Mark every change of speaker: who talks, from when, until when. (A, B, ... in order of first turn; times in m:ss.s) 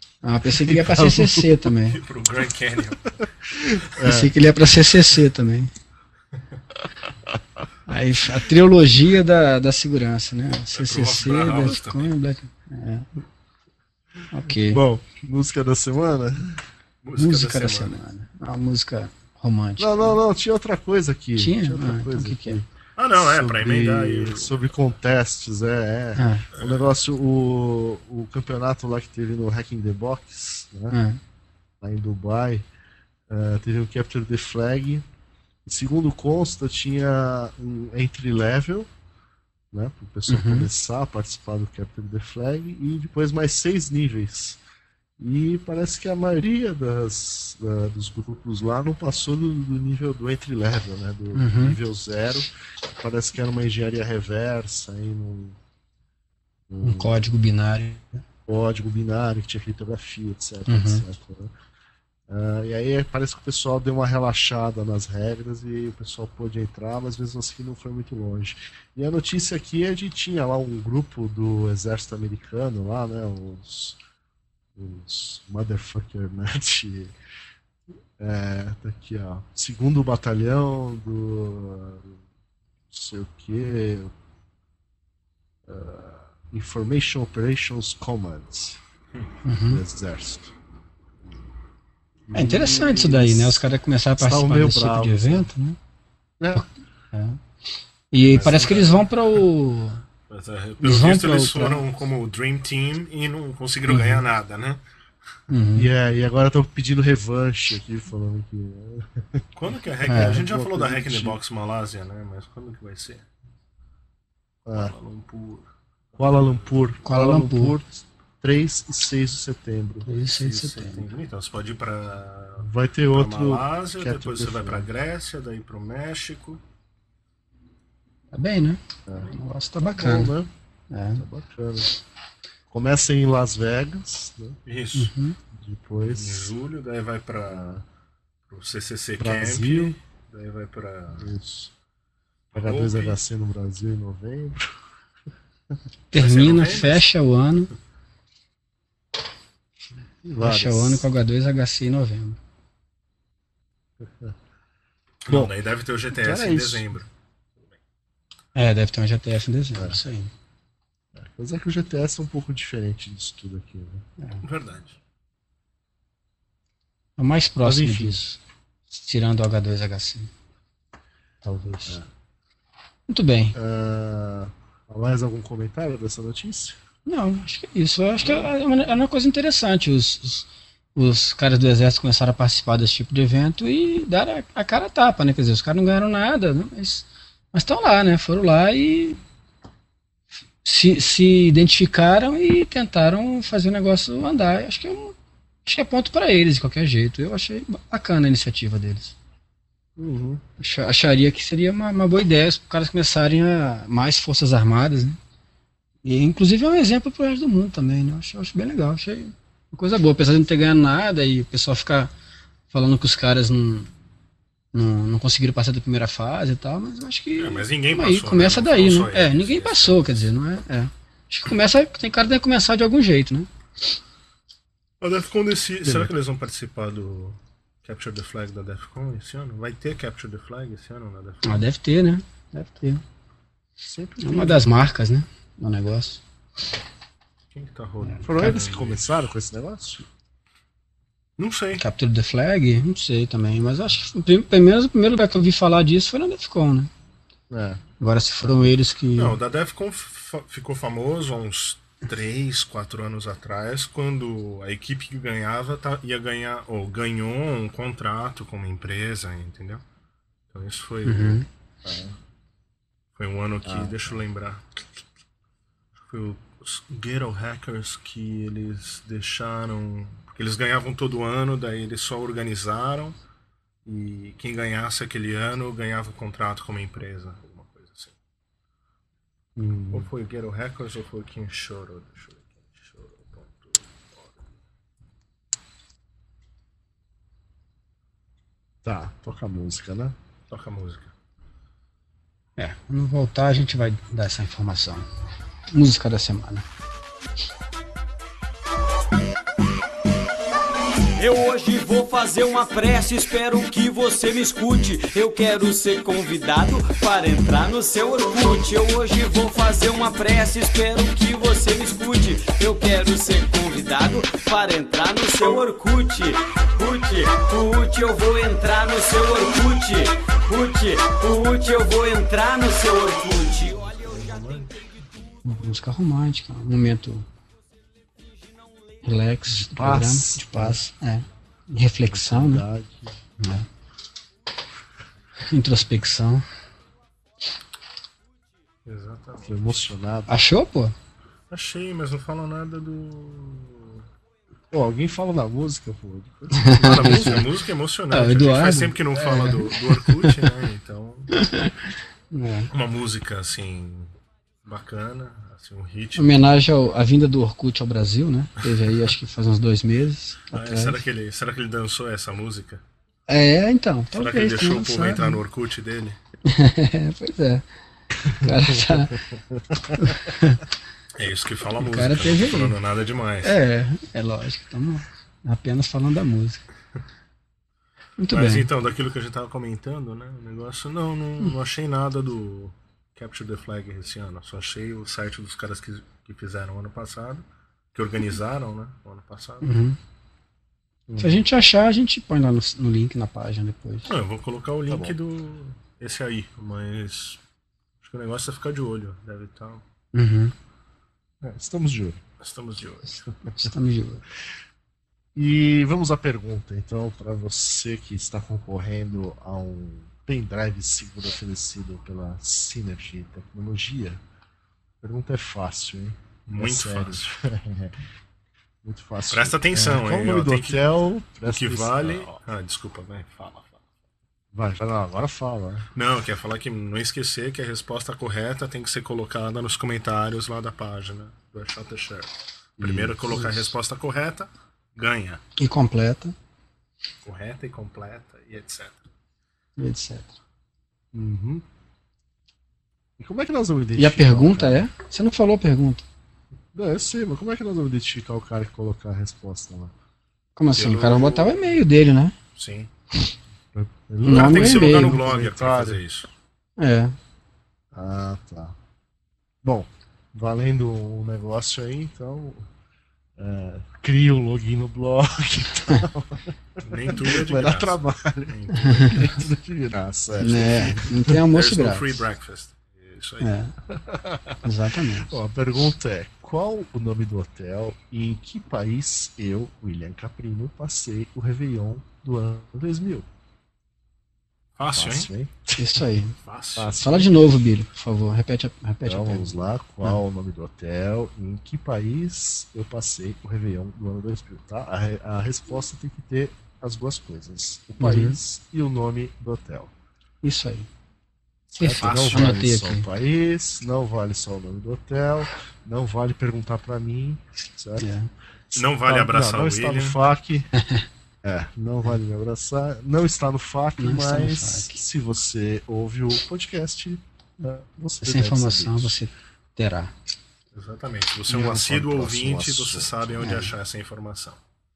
0:00.2-0:02.0 A
0:00.6-0:01.7 B
0:01.9-0:03.2 C
0:03.1-0:04.3 B
0:04.0-0:05.7 A
0:07.9-0:13.1 A
0:10.8-0:12.1 C
0:14.3-0:14.8 A
0:14.6-0:16.7 B
0:17.0-0:18.0 C
0:17.2-0:20.2 A
0:19.8-0:31.0 B
0:21.4-0:22.6 A
0:23.0-0:24.6 C
0:26.2-0:26.4 A
0:26.6-0:26.8 C
0:30.9-0:31.2 A
0:31.8-0:32.7 B
0:33.3-0:35.0 B
0:35.6-0:38.9 B
0:39.7-0:44.6 B
0:40.3-0:40.7 A
0:45.2-0:55.6 B
0:51.4-0:51.8 A
0:56.7-0:57.2 B
0:56.8-0:58.2 A
0:58.5-1:01.5 B
1:00.7-1:01.0 A
1:02.3-1:14.0 B
1:14.8-1:17.2 B
1:18.2-1:22.2 B
1:22.9-1:24.1 B
1:25.6-1:28.8 B
1:29.4-1:29.8 A
1:29.7-1:30.5 B
1:32.3-1:33.6 B
1:32.3-1:35.8 A
1:34.2-1:35.5 B
1:36.4-1:36.7 B
1:36.5-1:37.4 A
1:38.1-1:40.0 A
1:38.2-1:39.1 C
1:40.3-1:44.8 C
1:40.8-1:41.8 A
1:43.9-1:44.2 A
1:45.5-1:45.9 A
1:45.8-1:49.5 B
1:49.6-1:53.2 C
1:50.0-1:51.4 B
1:50.1-1:50.4 A
1:54.7-1:55.0 B
1:54.7-1:56.7 C
1:56.2-2:00.1 B
1:57.0-1:57.8 A
2:00.1-2:01.0 A
2:00.3-2:06.6 C
2:02.6-2:04.9 B
2:08.3-2:10.3 A
2:09.1-2:09.4 B
2:09.9-2:10.5 B
2:10.9-2:11.2 A
2:11.1-2:11.9 B
2:12.7-2:14.6 B
2:14.7-2:15.1 C
2:15.0-2:15.4 A
2:15.5-2:16.5 B
2:16.1-2:17.8 C
2:17.5-2:17.8 B
2:18.5-2:21.3 C
2:19.2-2:20.0 B
2:21.1-2:21.7 B
2:22.5-2:23.2 C
2:22.5-2:24.7 B
2:26.1-2:27.7 A
2:26.1-2:27.0 C
2:30.2-2:31.0 B
2:30.4-2:32.4 A
2:34.0-2:34.3 B
2:35.2-2:37.1 C
2:35.3-2:35.5 B
2:36.1-2:36.9 B
2:38.6-2:40.3 A
2:41.2-2:44.1 B
2:44.4-2:45.0 C
2:47.2-2:48.4 A
2:47.6-2:48.2 B
2:48.9-2:50.3 A
2:51.4-2:52.0 A
2:53.1-2:53.6 A
2:53.6-2:56.8 B
2:57.1-3:09.2 A
3:10.6-3:19.2 A
3:20.0-3:20.4 B
3:20.6-3:25.2 A
3:26.0-3:32.1 A
3:32.7-3:33.9 A
3:34.7-3:43.5 A
3:37.4-3:40.2 C
3:45.0-3:51.7 C
3:45.8-3:46.1 B
3:51.4-3:53.0 A
3:53.8-3:54.7 B
3:54.2-3:56.2 A
3:57.5-3:59.3 C
3:58.0-3:58.6 A
3:58.2-4:00.1 B
4:01.4-4:01.8 C
4:01.8-4:06.9 A
4:07.5-4:07.8 B
4:08.0-4:09.4 A
4:09.2-4:19.8 C
4:20.5-4:21.4 C
4:21.0-4:21.5 A
4:21.8-4:22.2 B
4:23.2-4:24.8 C
4:23.6-4:24.2 B
4:26.0-4:33.2 C
4:33.8-4:38.2 C
4:39.6-4:40.1 B
4:39.9-4:44.5 C
4:48.8-4:50.2 B
4:50.5-4:51.1 C
4:52.6-4:55.0 A
4:55.7-4:56.6 A
5:01.2-5:24.5 D
5:23.8-5:24.8 C
5:25.4-5:27.3 A
5:29.0-5:32.6 A
5:29.5-5:30.8 B
5:32.0-5:33.2 B
5:33.4-5:33.7 A
5:35.5-5:36.4 A
5:38.9-5:39.9 C
5:39.4-5:40.4 B
5:40.3-5:41.0 A
5:41.5-5:44.0 C
5:44.7-5:47.4 B
5:46.6-5:47.4 A
5:46.8-5:51.6 C
5:48.1-5:50.5 A
5:51.4-5:51.7 A
5:52.3-5:52.7 A
5:52.7-5:54.1 C
5:54.6-5:56.6 C
5:56.2-6:01.0 A
6:00.5-6:02.8 C
6:03.3-6:05.4 A
6:04.1-6:06.2 C
6:06.5-6:07.6 A
6:08.3-6:10.1 B
6:08.3-6:09.2 A
6:10.0-6:10.6 A
6:11.2-6:13.6 C
6:11.8-6:12.7 A
6:13.4-6:16.6 A
6:18.2-6:18.7 A
6:18.3-6:29.7 C
6:29.6-6:30.0 A
6:31.1-6:31.4 B
6:31.2-6:34.1 A
6:34.0-6:37.4 C
6:34.9-6:35.2 B
6:38.0-6:39.8 C
6:40.1-6:40.5 A
6:41.4-6:42.2 B
6:42.4-6:43.3 C
6:43.5-6:44.2 A
6:45.4-6:54.2 B
6:55.0-6:58.0 B
6:56.5-6:57.3 C
6:58.8-7:02.4 B
6:59.3-7:00.8 C
7:01.5-7:03.8 C
7:04.5-7:05.9 B
7:06.0-7:15.4 C
7:12.8-7:13.4 B
7:13.3-7:13.6 A
7:15.6-7:16.3 A
7:17.2-7:19.1 C
7:19.8-7:20.4 A
7:21.1-7:21.6 B
7:23.2-7:24.9 B
7:24.0-7:26.0 A
7:26.7-7:29.9 B
7:30.6-7:32.4 A
7:30.8-7:31.7 C
7:32.6-7:32.9 C
7:33.7-7:36.0 B
7:34.2-7:35.2 A
7:34.3-7:36.3 C
7:36.8-7:37.2 A
7:37.9-7:38.8 B
7:39.6-7:42.7 B
7:43.4-7:51.5 B
7:46.8-7:49.4 C
7:48.8-7:49.2 A
7:50.4-7:52.1 A
7:51.5-7:53.6 C
7:53.4-7:53.7 A
7:54.0-7:54.5 B
7:54.6-7:55.4 A
7:55.2-8:03.3 B
8:04.8-8:05.3 C
8:04.9-8:05.8 B
8:05.8-8:06.4 A
8:06.4-8:07.2 C
8:06.8-8:07.3 B
8:07.0-8:09.5 A
8:09.0-8:19.9 B
8:18.0-8:18.4 A
8:20.4-8:20.9 A
8:21.7-8:28.1 B
8:21.8-8:23.1 A
8:22.0-8:22.6 C
8:28.0-8:28.3 A
8:28.7-8:30.7 B
8:28.8-8:30.2 C
8:30.8-8:31.0 A
8:31.4-8:39.2 B
8:34.0-8:35.0 A
8:38.2-8:40.1 A
8:40.7-8:44.6 C
8:41.5-8:43.6 B
8:43.4-8:43.7 A